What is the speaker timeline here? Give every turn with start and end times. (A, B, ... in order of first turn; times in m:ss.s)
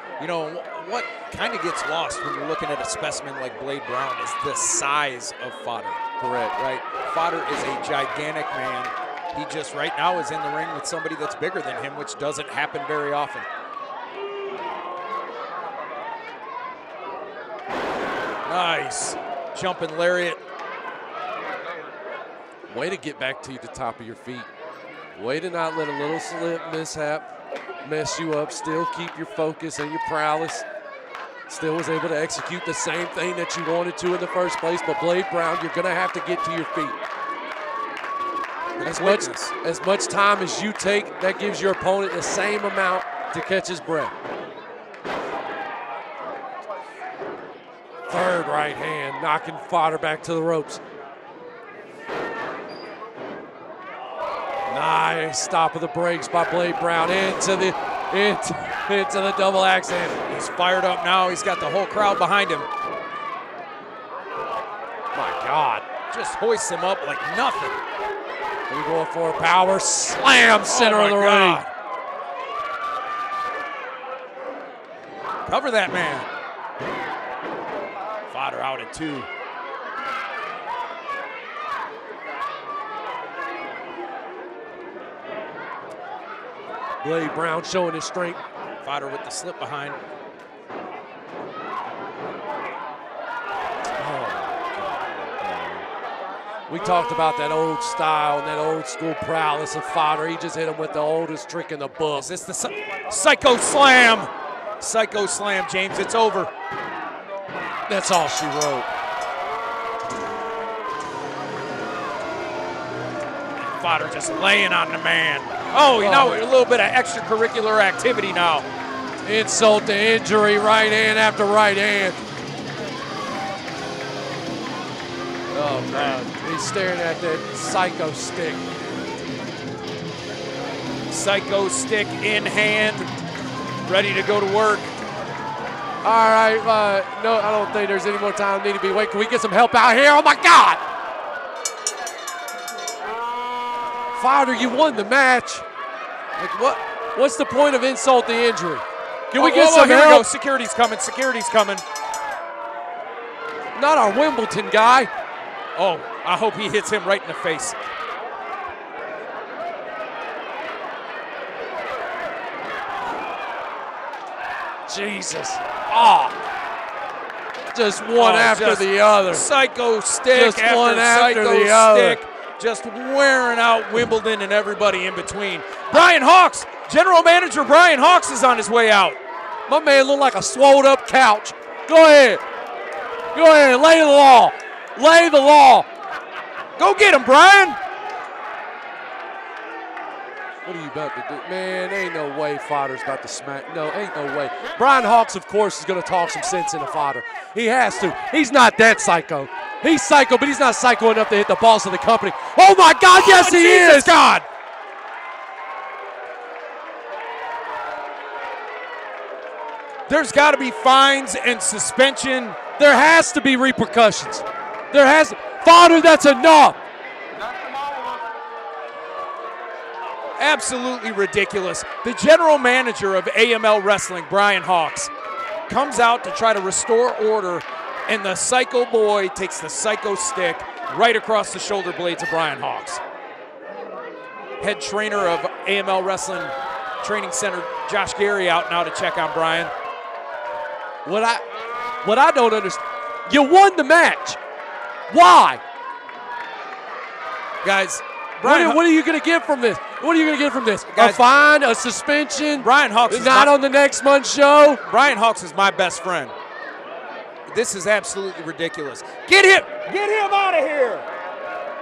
0:00.2-0:06.0 A
0:06.2-0:06.5 B
0:06.6-0:13.4 A
0:18.4-0:20.4 A
0:22.7-0:24.5 B
0:25.1-0:27.2 B
0:27.8-0:30.6 B
0:31.5-0:37.0 B
0:38.8-0:39.5 A
0:38.8-0:44.1 B
0:48.1-0:50.8 B
0:54.7-1:00.2 B
1:00.3-1:02.7 A
1:05.1-1:05.8 B
1:06.1-1:07.8 A
1:08.7-1:11.7 B
1:10.6-1:11.7 A
1:15.5-1:16.3 A
1:18.3-1:19.3 A
1:27.0-1:28.4 B
1:28.8-1:30.0 A
1:34.0-1:35.9 B
1:36.7-1:42.3 B
1:42.1-1:46.5 A
1:47.9-1:48.9 B
1:53.8-1:58.6 A
1:55.9-1:56.4 B
1:59.2-2:02.2 B
2:05.5-2:08.6 B
2:05.9-2:06.2 A
2:11.1-2:13.1 A
2:13.8-2:14.9 A
2:16.0-2:20.8 B
2:24.2-2:25.6 B
2:26.4-2:26.8 A
2:27.1-2:30.2 B
2:29.3-2:31.8 A
2:33.7-2:35.1 B
2:35.8-2:37.8 A
2:44.9-2:46.4 B
2:47.7-2:49.5 B
2:48.1-2:59.2 A
2:50.3-2:52.2 B
2:59.7-3:02.4 B
3:03.3-3:05.9 B
3:06.8-3:07.8 A
3:10.6-3:24.2 B
3:23.1-3:24.4 A
3:30.1-3:32.6 A
3:32.8-3:36.8 B
3:40.4-3:45.1 A
3:45.7-3:53.0 A
3:54.6-3:59.7 A
4:01.0-4:01.4 B
4:02.0-4:04.4 B
4:05.1-4:05.6 B
4:07.6-4:08.8 A
4:08.4-4:14.8 B
4:10.9-4:11.2 A
4:12.6-4:13.5 A
4:14.8-4:16.3 A
4:17.5-4:21.0 A